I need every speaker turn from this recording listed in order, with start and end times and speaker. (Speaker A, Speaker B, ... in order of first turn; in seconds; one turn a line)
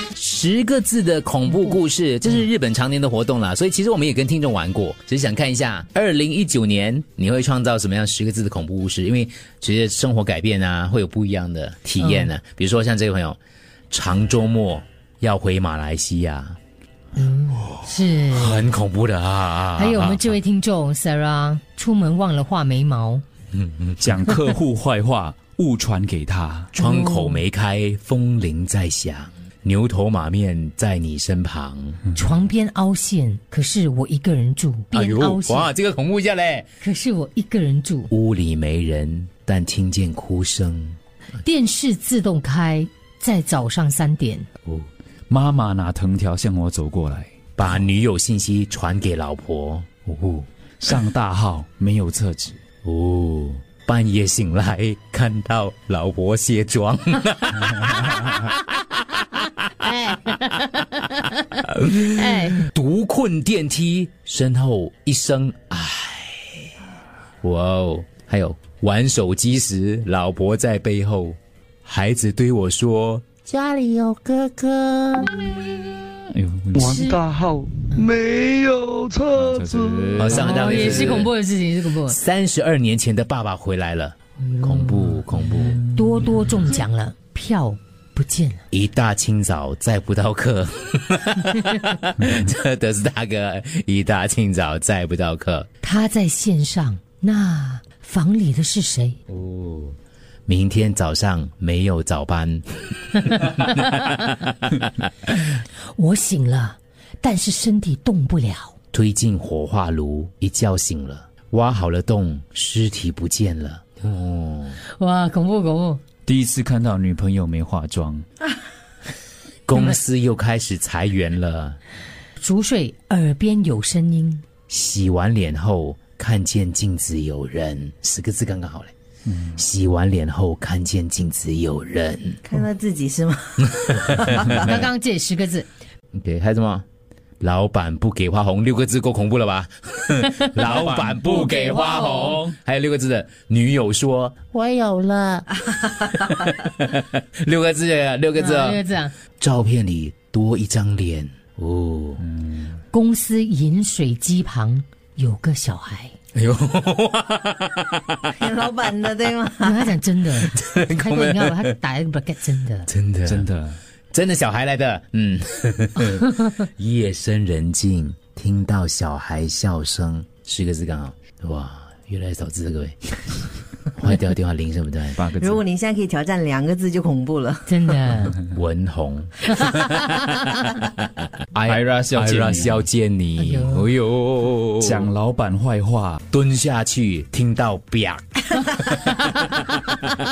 Speaker A: 0.1-13.4
Speaker B: 12.0-12.3
Speaker A: 13.9-16.6
Speaker B: 17.2-18.6
Speaker A: 17.8-20.4
Speaker B: 19.8-23.2
Speaker A: 23.5-24.1
Speaker C: 24.0-26.7
Speaker A: 26.7-32.0
Speaker B: 26.8-27.4
Speaker B: 32.1-35.7
Speaker A: 34.9-36.7
Speaker B: 36.8-38.1
Speaker A: 38.1-41.0
Speaker B: 41.4-44.5
Speaker C: 45.3-47.3
Speaker A: 47.6-50.5
Speaker C: 50.8-52.6
Speaker A: 52.8-58.9
Speaker B: 59.8-61.1
Speaker A: 61.6-66.7
Speaker B: 62.1-62.6
Speaker A: 67.4-75.3
Speaker C: 76.3-77.0
Speaker D: 76.7-80.4
Speaker B: 76.8-77.2
Speaker C: 79.3-80.8
Speaker A: 80.2-81.3
Speaker B: 80.3-82.2
Speaker A: 82.0-85.8
Speaker B: 84.4-85.2
Speaker B: 85.8-88.6
Speaker A: 88.7-95.7
Speaker B: 95.8-99.2
Speaker A: 99.3-104.4
Speaker B: 103.5-103.8
Speaker B: 105.9-108.8
Speaker A: 108.9-114.8
Speaker B: 114.9-116.0
Speaker C: 116.3-118.3
Speaker A: 119.7-121.8
Speaker B: 122.4-124.4
Speaker A: 124.7-128.9
Speaker A: 129.5-132.4
Speaker E: 132.4-134.6
Speaker A: 134.0-134.8
Speaker B: 134.4-135.7
Speaker A: 136.1-136.8
Speaker A: 137.4-148.8
Speaker C: 140.6-142.5
Speaker B: 141.8-142.3
Speaker B: 148.4-149.1
Speaker A: 149.4-152.2
Speaker C: 152.2-152.7
Speaker B: 152.9-156.1
Speaker A: 156.3-158.3
Speaker E: 158.4-159.9
Speaker B: 159.6-162.9
Speaker A: 160.4-161.7
Speaker A: 162.9-163.5
Speaker C: 163.3-163.8
Speaker A: 164.1-173.1
Speaker A: 173.9-175.2
Speaker C: 175.2-175.6
Speaker E: 175.4-177.7
Speaker B: 177.7-178.4
Speaker A: 178.5-185.1
Speaker C: 181.5-182.9
Speaker B: 183.4-183.9
Speaker C: 184.8-186.2
Speaker A: 186.3-190.0